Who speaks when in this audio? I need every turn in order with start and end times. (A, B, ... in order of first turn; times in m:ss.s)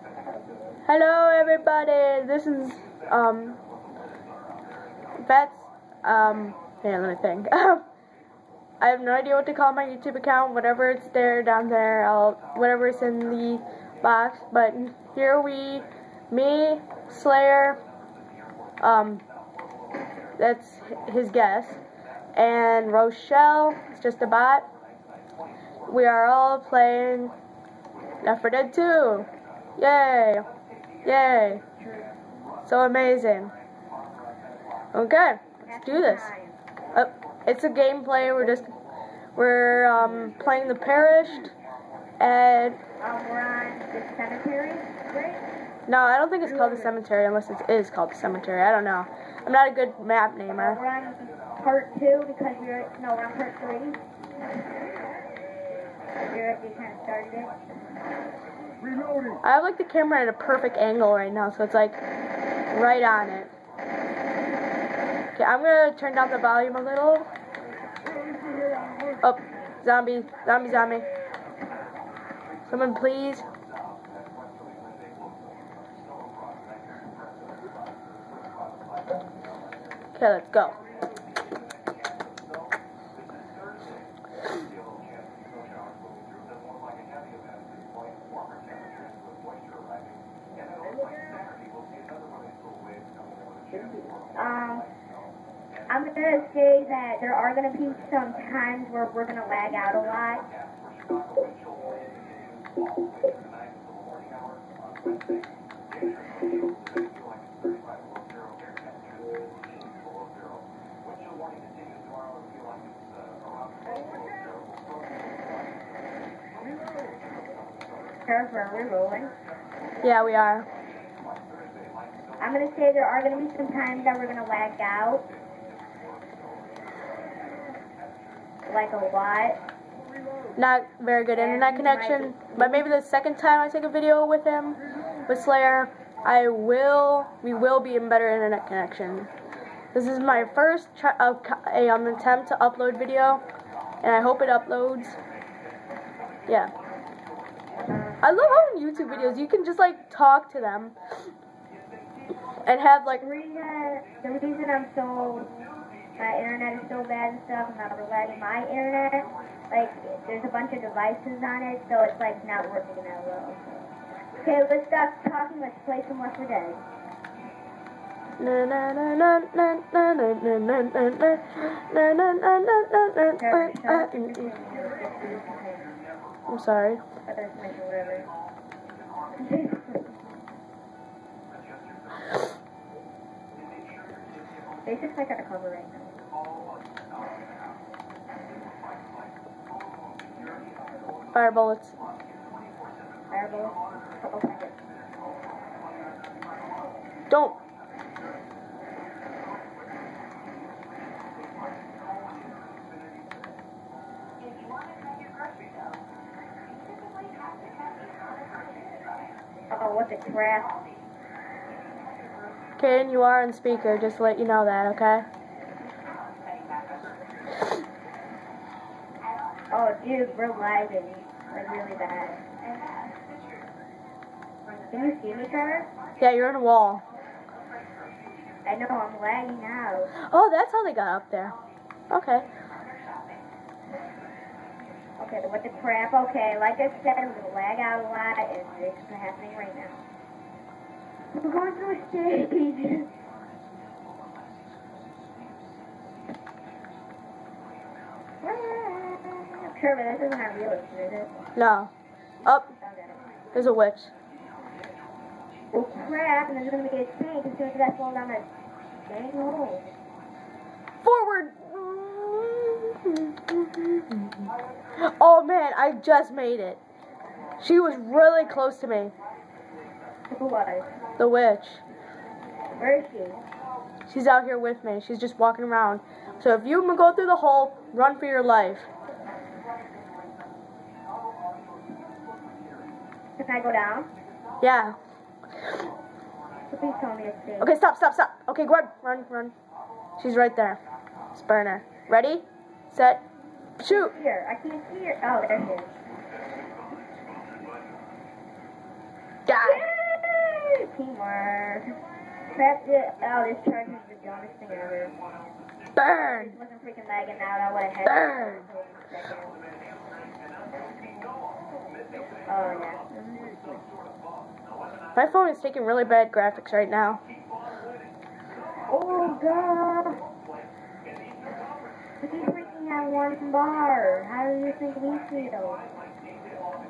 0:00.2-0:00.8 A
0:00.9-0:03.6 B
0:05.2-0:07.8 B
0:08.8-0:17.8 B
0:18.8-0:19.2 B
0:20.4-0:21.8 B
0:22.4-0:24.7 B
0:25.9-0:27.4 B
0:28.2-0:30.5 B
0:31.0-0:31.6 B
0:32.7-0:33.5 B
0:34.9-0:36.3 B
0:35.6-0:36.6 A
0:36.9-0:38.7 B
0:39.4-0:41.5 B
0:42.2-0:42.8 B
0:43.0-0:45.4 A
0:45.9-0:50.8 B
0:50.5-0:54.0 A
0:56.2-0:57.7 A
0:59.4-1:02.0 B
1:02.7-1:03.5 B
1:05.4-1:07.3 B
1:09.2-1:11.1 B
1:12.7-1:13.4 B
1:20.2-1:20.8 B
1:33.7-1:34.9 A
1:35.9-1:40.5 A
1:58.3-1:59.3 A
2:00.0-2:00.7 B
2:02.4-2:05.3 A
2:08.7-2:09.6 A
2:10.6-2:19.3 B
2:11.4-2:13.0 A
2:19.9-2:23.4 B
2:24.0-2:25.2 B
2:26.5-2:26.7 B
2:27.9-2:28.3 A
2:28.2-2:31.0 B
2:32.7-2:33.2 B
2:33.2-2:43.7 A
2:44.4-2:46.8 A
2:48.4-2:54.5 B
2:53.4-2:55.9 A
2:56.5-2:57.0 B
2:57.3-2:58.3 A
2:59.4-3:00.4 A
3:04.8-3:06.2 A
3:11.3-3:12.0 B
3:13.3-3:14.8 A
3:17.3-3:17.6 B
3:29.7-3:30.8 A
3:32.8-3:35.3 B
3:39.7-3:42.5 A
3:44.9-3:45.9 A
3:46.2-3:47.0 B
3:48.7-3:50.2 A
3:50.2-3:51.6 B
3:52.1-3:52.5 B
3:55.2-4:00.0 A
4:01.3-4:03.1 A
4:08.4-4:11.4 A
4:11.6-4:11.9 B
4:12.4-4:12.7 B
4:12.8-4:13.2 A
4:13.5-4:14.1 B
4:15.7-4:18.5 A
4:19.0-4:19.9 A
4:21.0-4:26.8 B
4:27.6-4:29.1 B
4:30.3-4:30.9 A
4:31.2-4:31.8 B
4:32.8-4:33.4 A
4:34.1-4:38.9 B
4:43.4-4:44.1 A
4:44.6-4:45.0 B
4:46.7-4:47.7 A
4:47.6-4:49.5 B
4:50.2-4:50.8 B
4:51.3-4:53.2 B
4:53.8-4:54.1 B
4:53.8-4:56.0 A
4:59.5-4:59.8 B
4:59.6-5:02.0 A
5:02.5-5:05.2 A
5:06.0-5:06.6 B
5:06.2-5:09.6 A
5:08.0-5:08.7 B
5:12.4-5:13.7 A
5:15.2-5:17.2 B
5:18.9-5:20.2 A
5:22.2-5:25.9 A